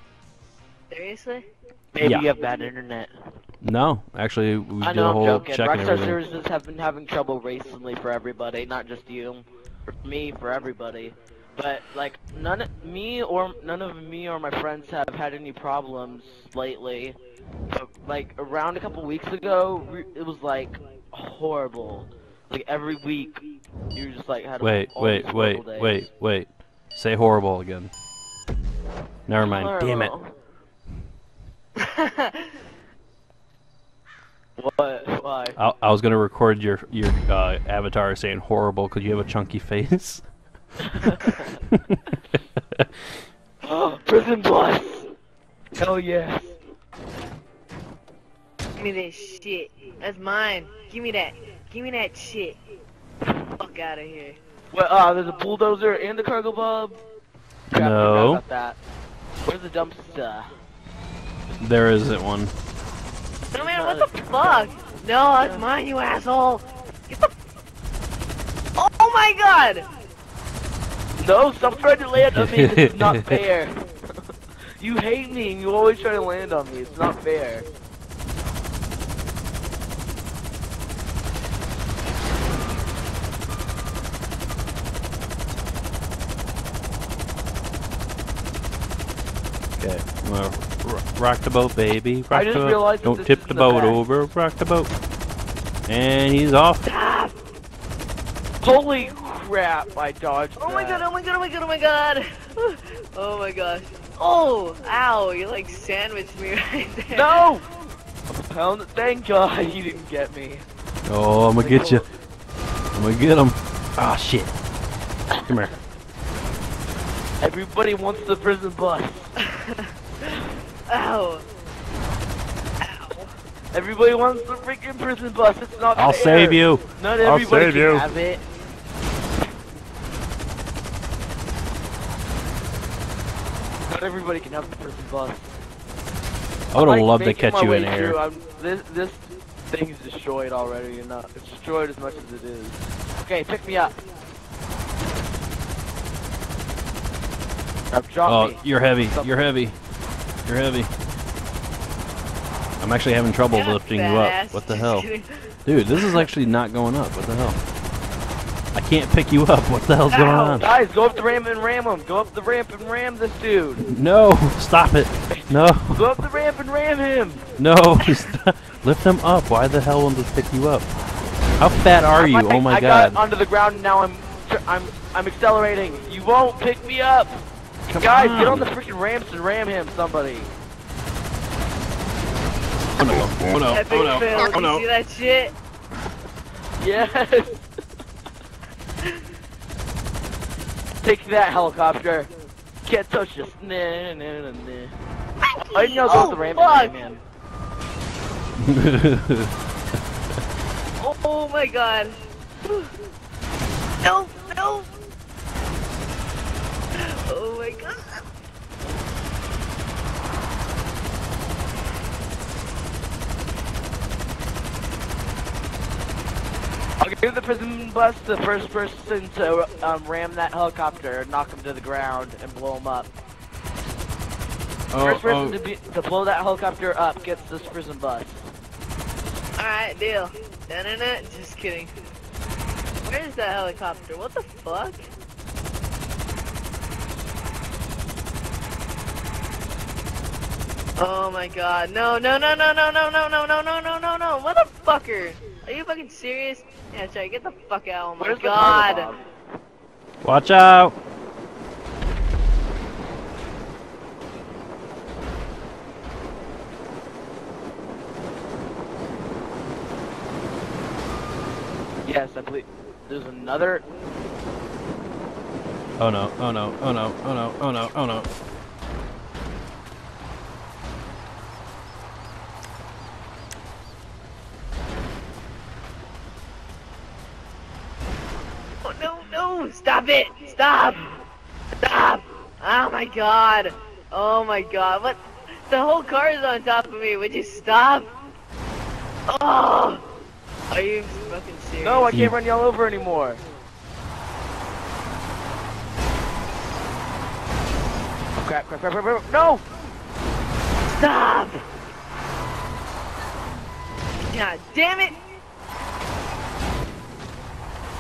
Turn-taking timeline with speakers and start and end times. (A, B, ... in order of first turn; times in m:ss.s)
0:00.9-0:01.5 A
0:01.9-0:03.1 B
0:02.0-0:02.3 C
0:03.6-0:06.2 C
0:04.8-0:09.5 B
0:10.0-0:17.2 B
0:17.7-0:26.1 B
0:24.6-0:27.9 C
0:29.3-0:30.1 C
0:29.4-0:30.3 B
0:31.8-0:32.5 A
0:34.6-0:35.6 B
0:35.6-0:40.2 C
0:41.0-0:41.5 B
0:43.6-0:45.1 B
0:45.8-0:46.6 B
0:48.8-0:52.6 A
0:53.6-0:54.4 A
0:54.7-0:57.0 B
0:57.7-0:58.4 C
0:57.7-0:58.8 B
0:59.4-1:00.5 B
1:01.6-1:02.5 C
1:03.5-1:04.7 B
1:03.5-1:07.3 A
1:05.4-1:05.7 B
1:08.8-1:09.9 A
1:11.2-1:13.8 B
1:12.3-1:13.1 C
1:14.8-1:17.7 B
1:29.8-1:34.9 C
1:32.3-1:34.0 B
1:35.9-1:36.8 C
1:36.8-1:37.3 A
1:38.6-1:41.0 B
1:40.6-1:47.4 A
1:47.1-1:47.7 B
1:48.3-1:50.6 B
1:51.1-1:52.0 C
1:51.6-1:52.1 B
1:52.9-1:54.5 C
1:55.4-1:55.7 C
1:57.4-1:59.3 B
1:59.4-1:59.9 A
2:00.9-2:01.4 A
2:02.8-2:03.3 A
2:03.7-2:08.4 B
2:06.0-2:08.1 C
2:13.9-2:15.5 B
2:16.7-2:18.2 C
2:16.7-2:24.0 B
2:27.9-2:29.5 B
2:28.3-2:29.8 C
2:30.4-2:30.9 C
2:32.8-2:35.1 C
2:33.5-2:36.2 A
2:35.7-2:37.6 C
2:38.7-2:40.7 C
2:40.1-2:40.6 A
2:40.6-2:43.8 B
2:43.8-2:46.2 C
2:45.3-2:47.4 B
2:47.6-2:50.9 C
2:51.6-2:53.2 C
2:52.2-2:57.4 B
2:57.9-2:58.7 C
2:58.0-3:00.5 B
3:03.0-3:04.8 C
3:03.7-3:05.6 A
3:06.8-3:07.6 B
3:11.0-3:12.3 B
3:12.8-3:14.9 B
3:15.4-3:17.0 A
3:15.7-3:17.2 B
3:18.6-3:19.5 C
3:21.0-3:22.9 A
3:24.0-3:24.9 A
3:27.0-3:28.2 A
3:37.0-3:43.1 B
3:44.9-3:45.6 C
3:45.0-3:48.5 B
3:49.6-3:51.9 A
3:53.0-3:55.0 A
4:01.0-4:09.1 A
4:08.2-4:09.2 B
4:10.2-4:10.9 C
4:22.0-4:23.8 B
4:26.0-4:28.3 C
4:38.8-4:41.0 A
4:41.8-4:48.1 A
4:49.3-4:50.0 A
4:50.7-4:52.3 A
4:51.8-4:53.4 B
4:58.4-4:59.6 B
5:00.9-5:01.6 A
5:04.3-5:05.2 A